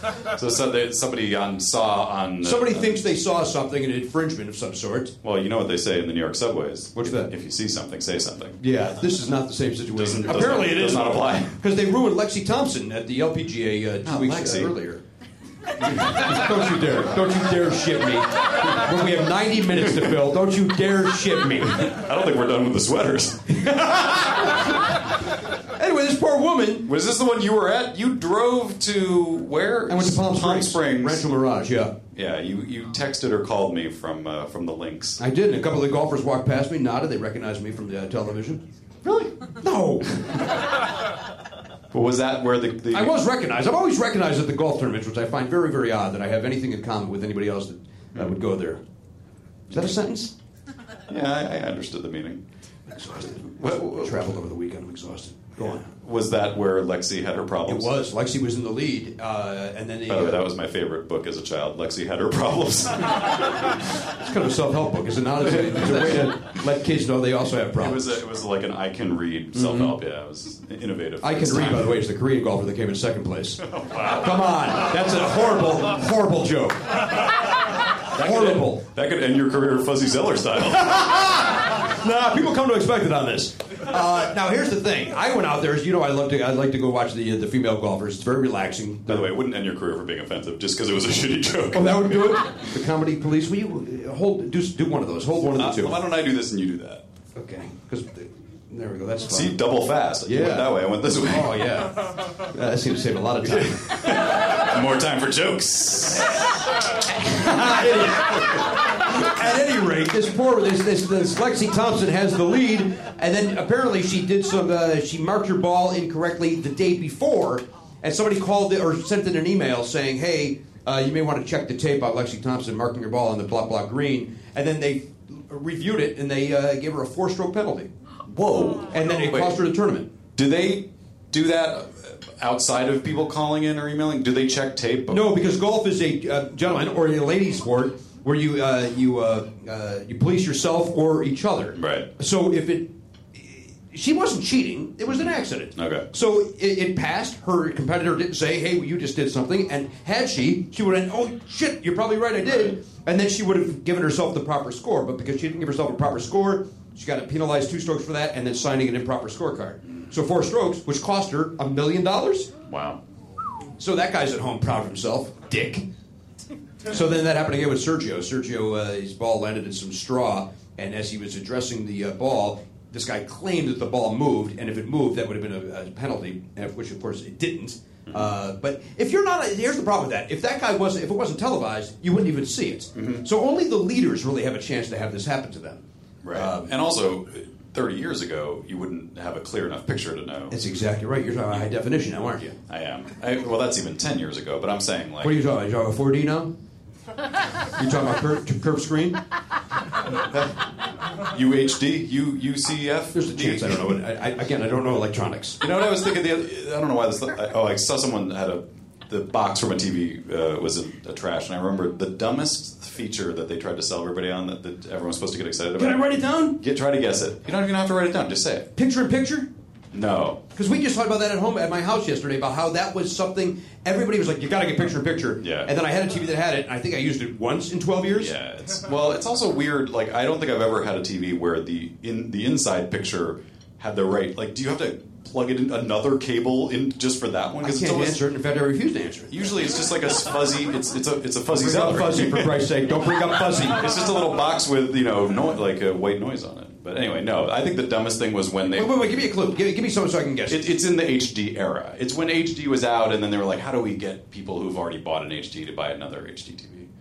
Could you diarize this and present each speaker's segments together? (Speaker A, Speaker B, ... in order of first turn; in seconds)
Speaker A: 0.2-3.1, 5.2-8.6, 9.9-11.6, 14.0-14.7, 19.8-20.1, 21.7-23.9, 26.9-31.2, 32.1-35.2, 41.9-43.1, 51.1-52.4, 53.5-54.3, 55.6-57.9, 60.1-63.8, 65.6-66.3, 67.8-72.0, 73.6-74.5, 78.1-81.2, 89.1-92.4, 95.5-97.0, 99.3-101.7, 103.4-106.4, 128.3-129.6, 130.3-135.3, 141.8-142.1, 145.8-146.0, 162.7-163.0, 182.9-183.2, 186.2-190.6, 192.7-195.4, 201.1-203.9, 205.6-218.7, 219.9-220.4, 225.4-225.7, 228.1-238.2, 239.3-249.1, 250.5-256.9
Speaker B: 2.4-5.1, 7.0-7.3, 8.6-15.0, 15.8-21.9, 23.6-24.7, 25.7-26.9, 29.9-31.9, 35.2-40.2, 42.9-48.8, 49.7-50.3, 52.9-55.9, 57.6-60.4, 64.2-68.2, 69.5-69.9, 71.2-76.8, 78.2-78.8, 80.8-89.3, 91.7-96.0, 97.3-99.6, 100.2-103.9, 107.1-127.9, 128.9-130.1, 135.1-162.5, 163.8-165.8, 166.8-185.8, 186.3-186.7, 190.5-192.6, 195.2-196.5, 197.8-199.2, 203.1-205.6, 215.8-216.6, 218.7-219.5, 220.5-228.3, 237.6-239.4, 241.5-243.8, 248.7-250.7